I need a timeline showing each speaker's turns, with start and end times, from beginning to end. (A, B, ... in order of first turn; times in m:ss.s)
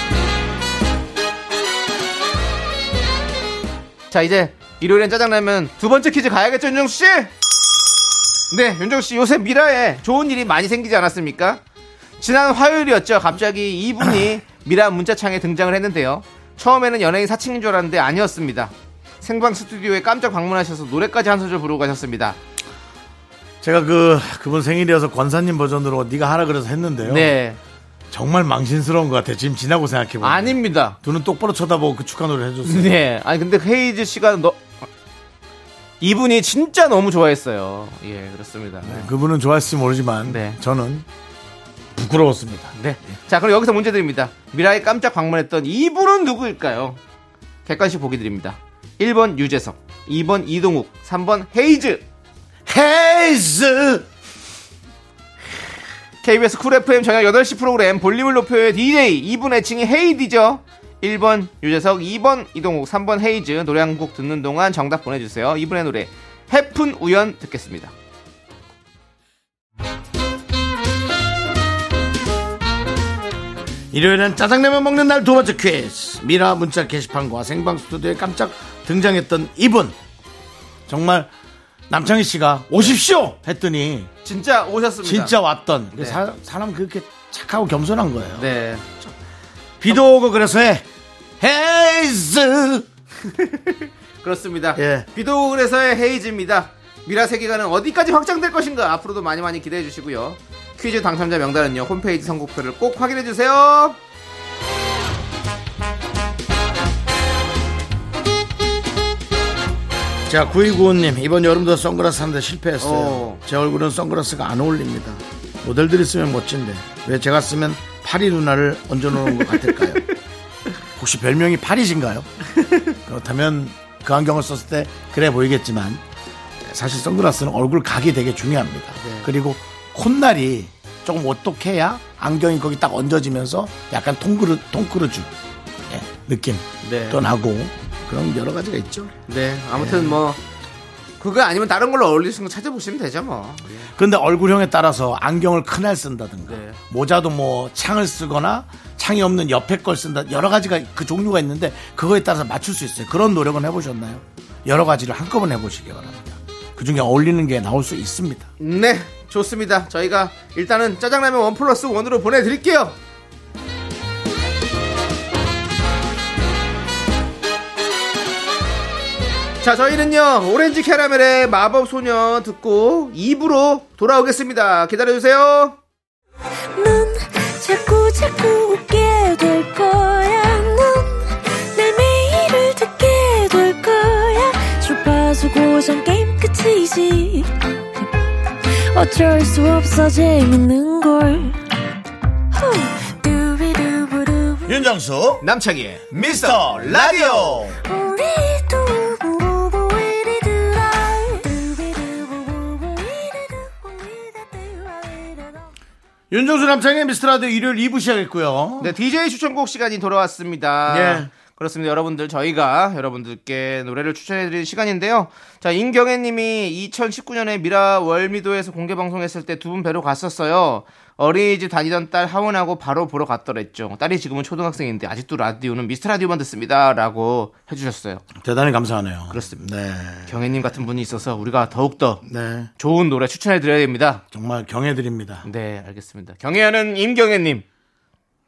0:04.1-0:07.3 A
0:08.5-0:11.6 A
0:12.2-0:22.4 A
0:23.6-0:27.3 B
0:27.0-0:27.6 A
0:28.1-0:33.0 B
0:30.2-0:31.0 A
0:32.6-0:34.8 A
0:36.0-0:39.1 A
0:38.8-0:41.1 B
0:40.3-0:40.6 A
0:42.0-0:42.8 B
0:42.8-0:47.0 A
0:47.7-0:52.0 A
0:52.7-0:54.1 B
0:56.2-1:07.9 A
1:13.9-1:20.0 B
1:20.9-1:21.3 B
1:21.9-1:24.1 B
1:24.2-1:25.4 A
1:25.0-1:28.5 B
1:26.0-1:26.2 A
1:28.4-1:28.9 A
1:29.8-1:30.9 B
1:31.4-1:32.9 B
1:33.2-1:44.0 A
1:34.8-1:35.1 B
1:50.3-2:00.0 B
1:52.8-1:53.4 A
1:59.2-2:00.0 A
2:01.0-2:02.3 B
2:02.6-2:03.0 A
2:03.0-2:06.0 B
2:06.6-2:15.3 B
2:09.0-2:09.3 A
2:15.9-2:19.1 B
2:16.8-2:17.2 A
2:19.3-2:20.4 A
2:19.7-2:20.2 B
2:21.2-2:23.9 A
2:23.8-2:38.5 B
2:26.5-2:26.8 A
2:38.6-2:43.0 A
2:49.6-2:55.8 A
2:56.8-3:08.1 C
3:08.9-3:11.6 C
3:12.5-3:14.8 C
3:14.7-3:15.4 B
3:15.4-3:17.7 A
3:16.2-3:17.8 B
3:17.8-3:25.7 C
3:26.3-3:28.9 B
3:28.8-3:48.2 A
3:30.9-3:31.3 B
3:48.4-3:50.4 B
3:49.3-3:49.6 A
3:50.3-3:52.2 A
3:52.2-3:52.7 B
3:52.8-3:54.2 A
3:54.3-3:55.5 B
3:55.4-3:57.6 A